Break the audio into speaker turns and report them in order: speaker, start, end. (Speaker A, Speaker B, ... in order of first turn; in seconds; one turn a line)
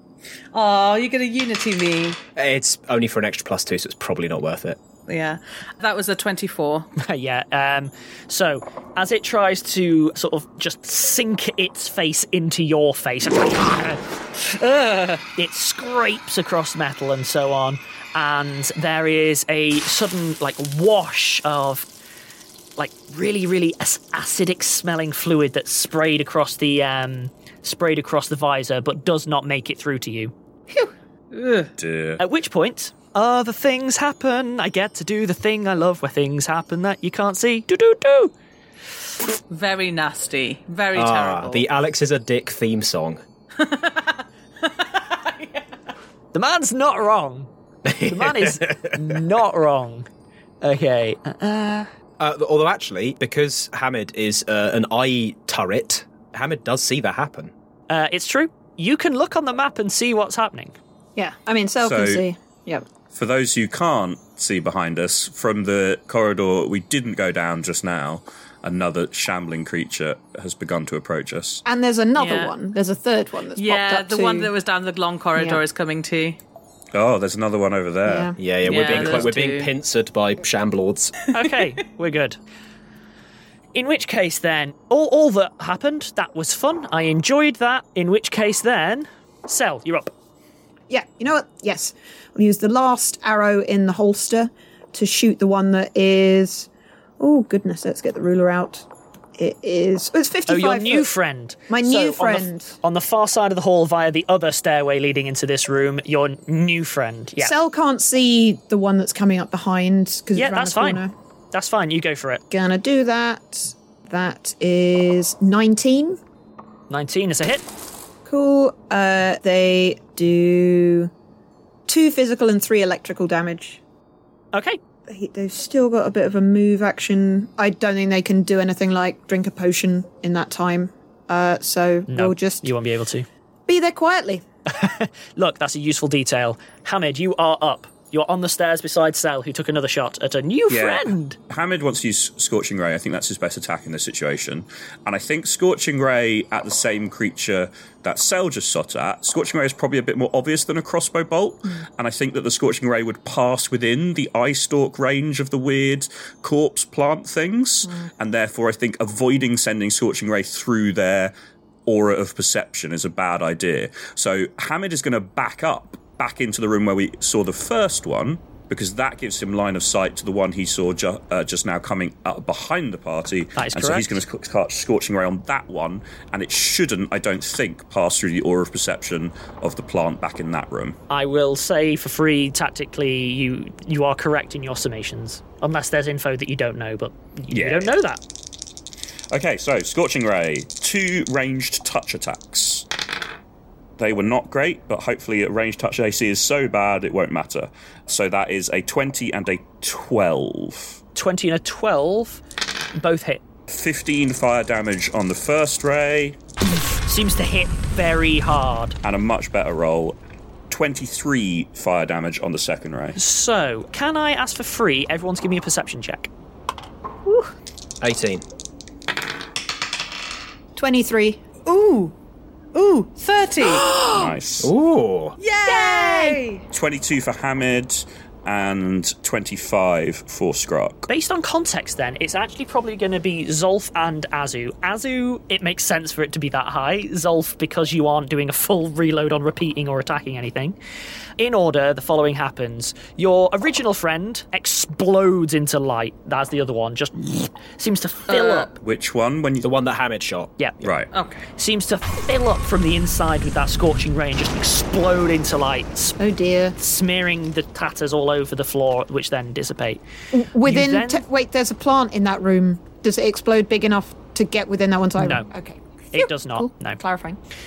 Speaker A: 0.5-2.2
Speaker B: 2.4-4.8
Speaker A: 5.1-6.9
Speaker C: 7.0-14.0
Speaker A: 14.4-15.2
Speaker C: 15.3-21.9
Speaker C: 22.8-30.3
Speaker A: 31.3-31.7
Speaker D: 31.8-32.2
Speaker C: 32.2-38.3
Speaker A: 39.5-41.6
Speaker B: 40.9-43.2
Speaker A: 43.5-45.7
Speaker C: 46.3-50.1
Speaker B: 47.9-49.1
Speaker C: 50.6-51.9
Speaker B: 52.2-57.5
Speaker C: 57.9-60.8
Speaker E: 61.1-62.8
Speaker D: 61.8-62.2
Speaker D: 63.1-71.6
Speaker E: 71.6-74.5
Speaker A: 72.2-72.5
Speaker A: 73.5-76.4
Speaker E: 75.3-75.6
Speaker D: 76.9-78.3
Speaker E: 78.0-78.3
Speaker B: 78.4-81.2
Speaker A: 78.6-79.7
Speaker D: 78.9-79.3
Speaker C: 81.3-82.4
Speaker C: 83.7-90.1
Speaker E: 90.9-96.7
Speaker E: 97.2-98.8
Speaker E: 99.4-101.1
Speaker C: 100.5-107.5
Speaker E: 101.7-102.7
Speaker E: 107.4-111.1
Speaker C: 110.3-112.4
Speaker E: 112.5-116.2
Speaker C: 116.9-117.6
Speaker E: 118.2-121.1
Speaker E: 121.9-123.8
Speaker C: 124.5-124.8
Speaker E: 125.1-132.7
Speaker C: 132.1-133.3
Speaker E: 133.7-134.4
Speaker C: 134.7-141.4
Speaker D: 140.7-161.3
Speaker D: 161.8-181.0
Speaker C: 173.6-174.2
Speaker C: 181.1-188.2
Speaker D: 187.5-187.9
Speaker D: 189.3-192.8
Speaker D: 194.0-201.0
Speaker C: 201.1-202.4
Speaker C: 202.9-203.4
Speaker D: 203.7-206.4
Speaker C: 207.0-209.0
Speaker D: 209.0-210.2
Speaker D: 210.7-213.2
Speaker C: 213.2-216.3
Speaker B: 218.0-218.4
Speaker E: 220.8-221.4
Speaker A: 221.6-222.1
Speaker A: 222.7-224.0
Speaker D: 224.0-224.7
Speaker B: 224.6-225.3
Speaker A: 225.4-226.6
Speaker E: 225.6-226.4
Speaker D: 226.7-231.1
Speaker C: 231.1-240.8
Speaker C: 241.4-248.7
Speaker A: 248.3-248.7
Speaker D: 248.8-249.7
Speaker B: 249.6-250.8
Speaker D: 250.8-251.1
Speaker A: 251.1-251.4
Speaker C: 251.6-256.2
Speaker E: 256.2-256.8
Speaker C: 256.8-260.0
Speaker E: 260.3-267.4
Speaker C: 260.6-261.2
Speaker C: 265.2-265.5
Speaker C: 266.1-267.0